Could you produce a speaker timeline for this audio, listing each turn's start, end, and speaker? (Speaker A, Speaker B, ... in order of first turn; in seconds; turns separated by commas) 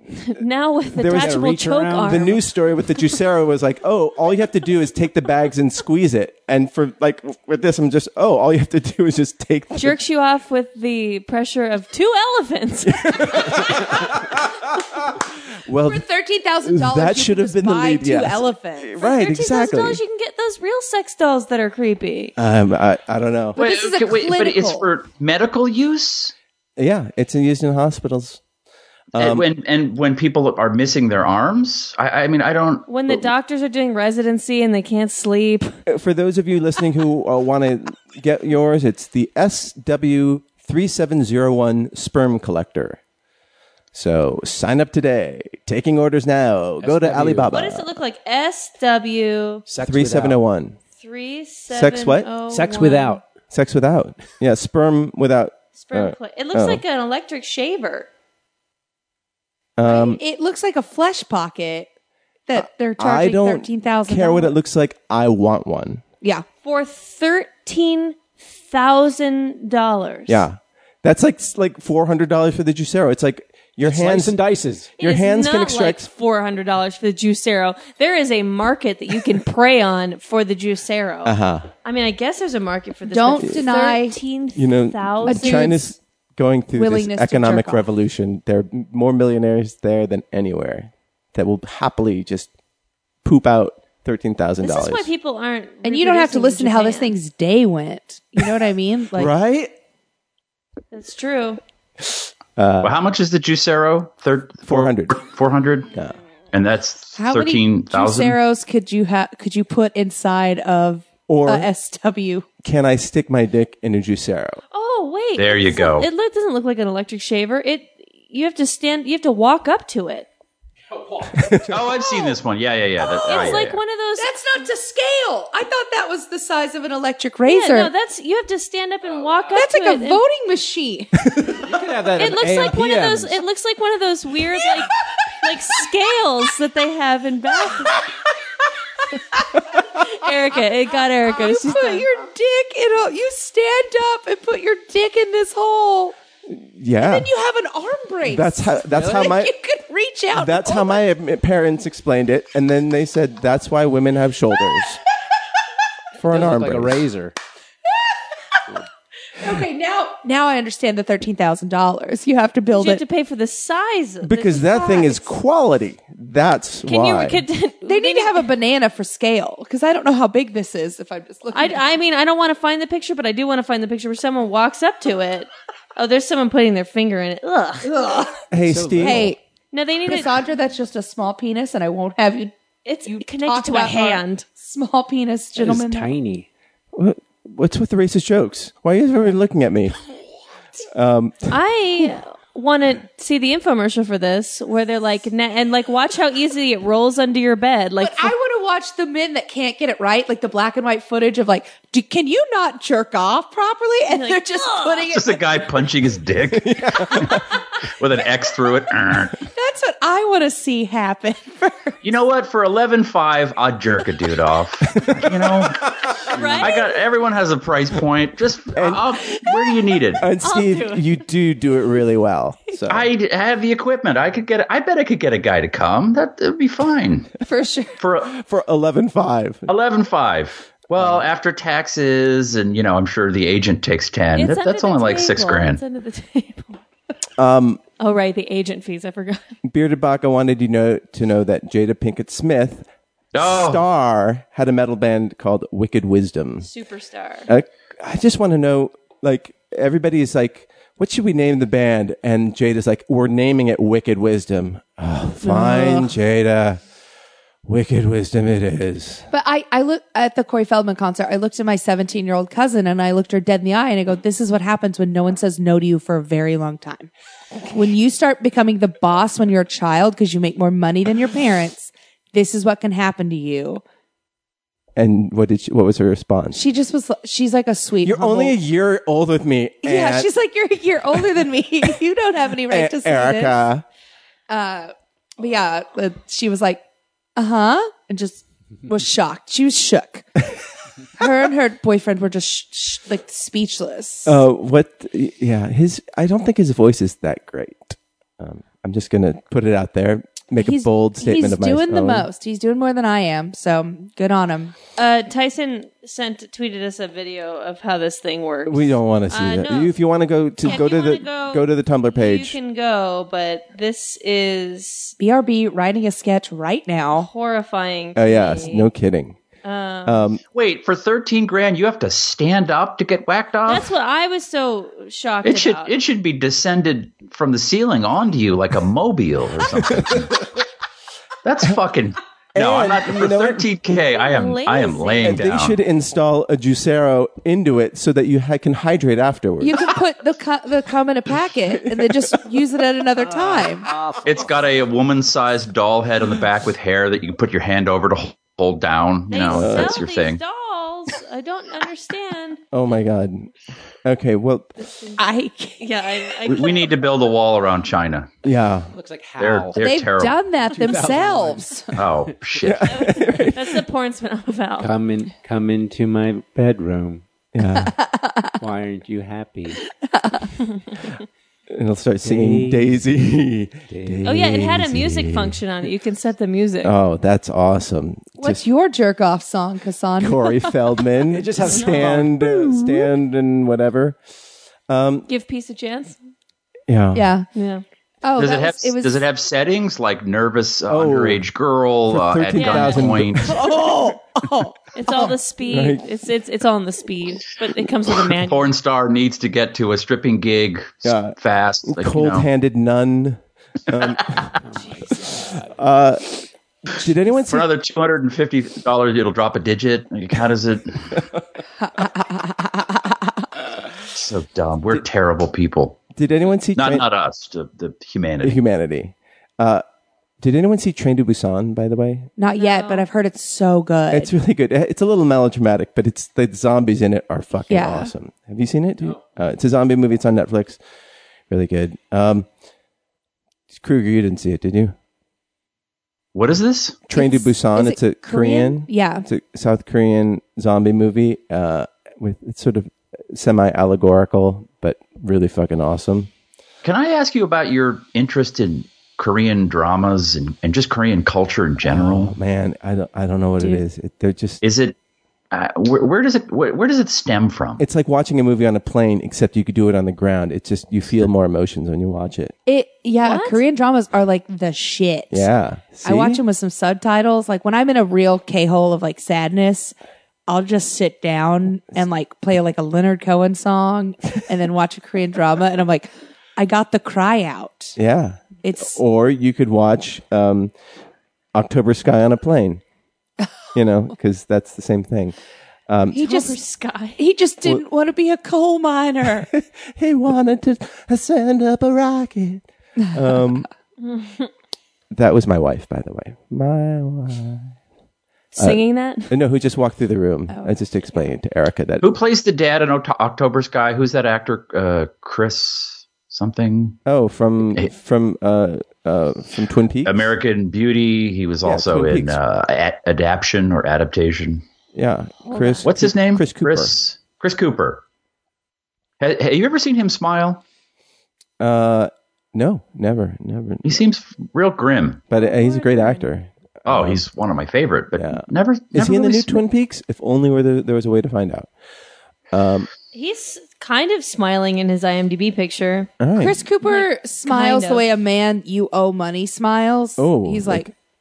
Speaker A: 0.2-2.4, Speaker B: 0.9-10.0, Speaker C: 1.1-2.3, Speaker A: 9.7-13.9, Speaker B: 12.9-16.0, Speaker D: 15.8-18.9, Speaker B: 16.6-20.0, Speaker A: 19.0-22.3, Speaker B: 22.4-23.6, Speaker E: 23.5-26.3, Speaker D: 23.6-24.9, Speaker B: 26.8-28.4, Speaker B: 29.1-29.4, Speaker E: 29.1-33.2, Speaker A: 32.9-35.7, Speaker B: 35.9-43.0, Speaker B: 43.9-48.0, Speaker C: 46.8-47.5, Speaker A: 47.5-49.6, Speaker C: 49.7-50.4, Speaker B: 49.8-50.8, Speaker A: 51.0-53.2, Speaker B: 51.7-52.3, Speaker C: 52.5-53.2, Speaker B: 53.5-56.8, Speaker A: 55.8-58.1, Speaker B: 59.8-60.2, Speaker D: 59.8-61.9, Speaker D: 62.5-64.6, Speaker B: 62.6-66.0, Speaker A: 66.6-70.4, Speaker B: 70.3-74.4, Speaker C: 73.8-74.9, Speaker B: 75.0-76.1, Speaker A: 75.0-85.8, Speaker B: 81.2-81.7, Speaker D: 83.0-84.2, Speaker B: 84.5-92.5, Speaker D: 85.2-85.9, Speaker D: 86.7-87.9, Speaker B: 93.2-95.1, Speaker A: 94.6-97.2, Speaker D: 95.8-99.3, Speaker B: 99.1-99.7, Speaker A: 100.9-101.6, Speaker B: 102.5-103.0, Speaker E: 102.8-105.9, Speaker B: 104.6-105.2, Speaker E: 106.5-108.4, Speaker D: 107.2-112.4, Speaker B: 111.3-111.7, Speaker B: 112.6-114.6, Speaker A: 114.7-120.3, Speaker E: 115.4-116.1, Speaker C: 120.9-121.7, Speaker B: 121.4-121.8, Speaker E: 121.7-123.8, Speaker D: 122.0-122.4, Speaker D: 123.0-123.6, Speaker A: 123.2-124.3, Speaker D: 124.2-127.9, Speaker A: 127.5-130.2, Speaker C: 129.1-129.4, Speaker D: 129.5-131.2, Speaker B: 131.2-131.6, Speaker C: 131.6-133.4, Speaker A: 132.2-138.0, Speaker A: 139.9-142.1, Speaker D: 141.2-146.2, Speaker B: 146.5-147.3, Speaker D: 147.0-151.0, Speaker B: 148.2-149.5, Speaker C: 148.9-149.2, Speaker B: 150.3-155.0, Speaker B: 156.1-157.0, Speaker C: 156.2-157.3, Speaker D: 159.4-163.0, Speaker A: 162.7-165.3, Speaker B: 164.2-167.4, Speaker A: 166.9-168.5, Speaker D: 167.8-171.8, Speaker A: 171.5-177.9, Speaker D: 177.9-178.4, Speaker B: 178.5-179.4, Speaker C: 178.6-179.3, Speaker D: 179.0-179.4, Speaker A: 179.7-180.4, Speaker D: 180.0-182.5, Speaker A: 182.8-184.4, Speaker D: 183.1-186.1, Speaker C: 185.6-186.5, Speaker B: 186.9-189.9, Speaker B: 190.9-191.6, Speaker A: 191.5-198.3, Speaker D: 198.0-205.4, Speaker A: 204.1-205.1, Speaker E: 205.1-209.4, Speaker B: 206.5-207.4, Speaker D: 209.5-211.9, Speaker E: 212.0-215.9, Speaker B: 214.8-215.8, Speaker C: 216.3-216.7, Speaker A: 216.3-216.8, Speaker E: 216.6-220.2, Speaker B: 218.7-219.1, Speaker B: 220.2-223.1, Speaker A: 220.4-221.2, Speaker E: 222.9-227.3, Speaker D: 227.4-227.9, Speaker E: 228.0-228.4, Speaker B: 228.3-229.7, Speaker E: 229.7-235.8, Speaker B: 231.0-231.2, Speaker A: 234.3-236.8, Speaker B: 237.4-237.8, Speaker A: 238.0-239.6, Speaker B: 239.6-246.7, Speaker E: 243.3-243.8, Speaker A: 246.6-247.5, Speaker B: 247.5-256.8, Speaker D: 255.4-256.1, Speaker B: 257.6-259.2, Speaker D: 259.3-267.1, Speaker D: 267.7-273.8, Speaker B: 274.9-276.6, Speaker D: 276.5-278.6, Speaker B: 278.0-280.3, Speaker D: 279.8-283.7, Speaker B: 282.7-283.8, Speaker D: 284.5-286.8, Speaker D: 287.4-290.2, Speaker D: 291.2-294.4, Speaker B: 294.2-302.3, Speaker D: 300.6-304.7, Speaker A: 305.0-309.9, Speaker B: 308.6-312.6, Speaker A: 310.6-315.1, Speaker D: 315.2-317.3, Speaker A: 317.1-318.9, Speaker B: 318.1-319.4, Speaker A: 319.6-320.3, Speaker B: 320.1-320.4, Speaker E: 320.5-323.9, Speaker A: 323.6-325.9, Speaker E: 325.4-330.3, Speaker B: 329.7-330.2, Speaker E: 331.4-335.8, Speaker B: 332.5-333.7, Speaker A: 334.1-335.4, Speaker B: 335.2-339.9, Speaker D: 339.6-343.9, Speaker B: 341.7-342.4, Speaker C: 343.9-344.3, Speaker E: 344.2-350.4, Speaker A: 349.3-352.6, Speaker B: 349.5-350.0, Speaker B: 352.7-353.5, Speaker B: 354.0-354.7, Speaker A: 354.8-355.2, Speaker D: 355.2-356.3, Speaker A: 355.8-356.9, Speaker E: 356.4-358.3, Speaker B: 358.4-358.9, Speaker C: 358.9-359.8, Speaker E: 359.4-360.5, Speaker D: 359.8-361.9, Speaker C: 360.6-362.8, Speaker E: 361.9-363.0, Speaker B: 362.6-363.8, Speaker A: 362.9-364.9, Speaker C: 364.8-367.2, Speaker B: 367.5-367.9, Speaker D: 367.9-368.6, Speaker C: 368.6-369.8, Speaker D: 370.0-370.6, Speaker B: 371.7-375.6, Speaker C: 372.2-373.0, Speaker C: 373.9-374.2, Speaker A: 374.2-376.9, Speaker B: 376.8-378.6, Speaker D: 378.4-380.8, Speaker B: 380.2-384.2, Speaker C: 381.3-382.4, Speaker A: 381.6-382.1, Speaker D: 382.4-383.1, Speaker B: 384.9-385.3, Speaker A: 385.3-386.2, Speaker B: 386.9-387.3, Speaker D: 387.1-387.5, Speaker A: 387.5-387.8, Speaker D: 388.2-389.2, Speaker E: 388.4-393.5, Speaker B: 390.9-391.4, Speaker B: 392.1-393.9, Speaker A: 392.5-393.2, Speaker D: 393.4-395.3, Speaker A: 395.0-398.7, Speaker B: 395.6-396.0, Speaker E: 398.3-402.4, Speaker B: 401.0-404.5, Speaker E: 404.1-404.4, Speaker C: 404.6-405.7, Speaker A: 404.8-405.3, Speaker B: 405.5-406.3, Speaker B: 406.9-407.7, Speaker E: 407.4-411.2, Speaker D: 411.8-413.4, Speaker E: 414.1-416.1, Speaker B: 416.1-417.1, Speaker E: 416.7-418.6, Speaker B: 418.4-419.8, Speaker B: 420.4-422.3, Speaker D: 422.4-424.3, Speaker A: 422.5-423.1, Speaker B: 424.1-430.8, Speaker D: 427.7-428.1, Speaker B: 431.5-432.5, Speaker B: 433.7-434.9, Speaker E: 436.3-437.0, Speaker B: 437.1-446.3, Speaker D: 437.1-439.2, Speaker E: 446.8-452.3, Speaker B: 451.8-454.6, Speaker E: 454.6-454.9, Speaker E: 455.5-457.8, Speaker B: 457.8-462.5, Speaker D: 462.6-465.5, Speaker A: 463.2-463.6, Speaker B: 465.3-466.4, Speaker D: 466.0-469.9, Speaker D: 470.5-477.9, Speaker B: 477.9-480.7, Speaker D: 478.6-479.0, Speaker B: 481.5-482.8, Speaker B: 483.7-485.4, Speaker B: 485.9-486.4, Speaker D: 486.1-486.5, Speaker A: 486.1-487.2, Speaker D: 487.2-489.5, Speaker B: 489.4-493.7, Speaker A: 494.0-494.5, Speaker B: 495.1-497.7, Speaker A: 498.5-499.3, Speaker B: 498.6-502.1, Speaker E: 502.0-507.0, Speaker B: 507.1-510.2, Speaker E: 510.0-514.6, Speaker B: 511.6-512.4, Speaker B: 514.9-516.9, Speaker A: 515.4-515.9, Speaker E: 515.8-518.0, Speaker E: 519.2-520.6, Speaker B: 521.6-524.0, Speaker E: 523.8-525.2, Speaker B: 525.3-527.2, Speaker A: 525.3-526.3, Speaker E: 526.8-529.3, Speaker B: 528.1-531.7, Speaker D: 529.0-529.6, Speaker B: 532.5-532.9, Speaker A: 533.1-536.1, Speaker B: 536.2-536.6, Speaker D: 536.4-540.9, Speaker A: 536.8-538.1, Speaker B: 540.2-540.9